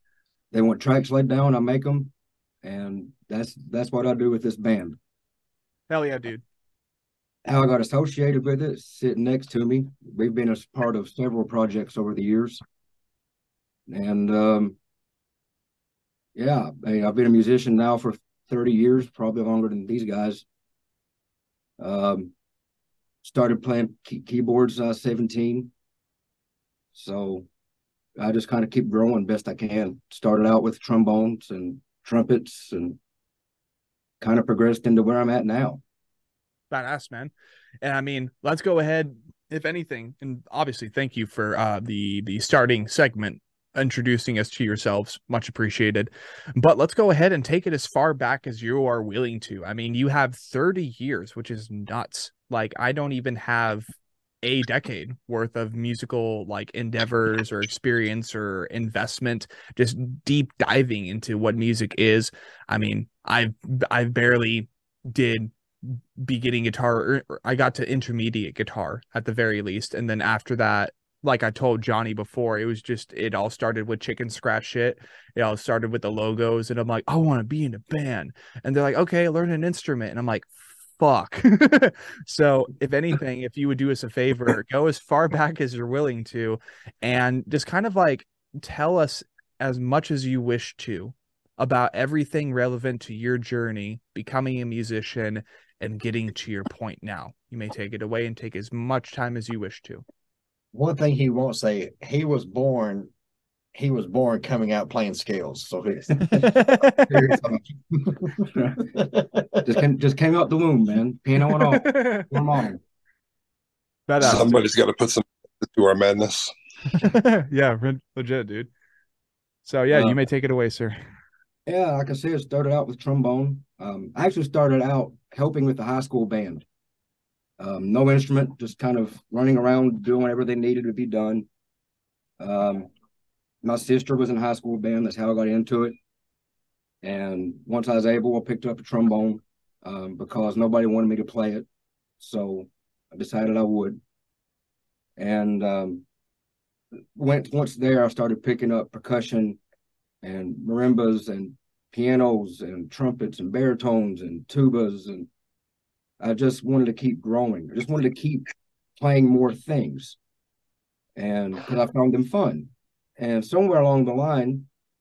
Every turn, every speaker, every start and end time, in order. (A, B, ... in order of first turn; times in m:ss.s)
0:00.5-0:02.1 A
0:02.6-0:05.0 A
0:05.9-0:06.4 B
0:07.5-0:12.6 A
0:13.9-0:14.8 A
0:16.4-0:20.4 A
0:21.8-0:22.3 A
0:23.2-0:25.7 A
0:27.0-0:27.5 A
0:28.2-0:33.0 A
0:34.2-0:35.8 A
0:36.7-0:37.3 B
0:37.8-1:40.0 B
1:40.7-1:43.1 C
1:43.8-1:46.5 C
1:46.2-1:46.5 A
1:46.3-1:47.1 B
1:47.1-1:47.6 A
1:47.9-1:49.8 C
1:48.3-1:48.9 A
1:49.7-1:52.8 A
1:51.7-1:52.3 B
1:54.1-1:54.7 B
1:54.2-1:56.5 D
1:56.9-1:58.7 B
1:59.7-2:01.0 B
1:59.9-2:00.2 A
2:01.7-2:06.6 A
2:07.6-2:11.5 A
2:12.4-2:12.9 A
2:13.6-2:16.0 A
2:17.0-2:21.7 A
2:22.2-2:24.0 A
2:25.2-2:26.0 A
2:27.2-2:29.6 A
2:30.2-2:35.3 A
2:36.2-2:38.5 A
2:39.0-2:40.2 A
2:41.2-2:44.7 A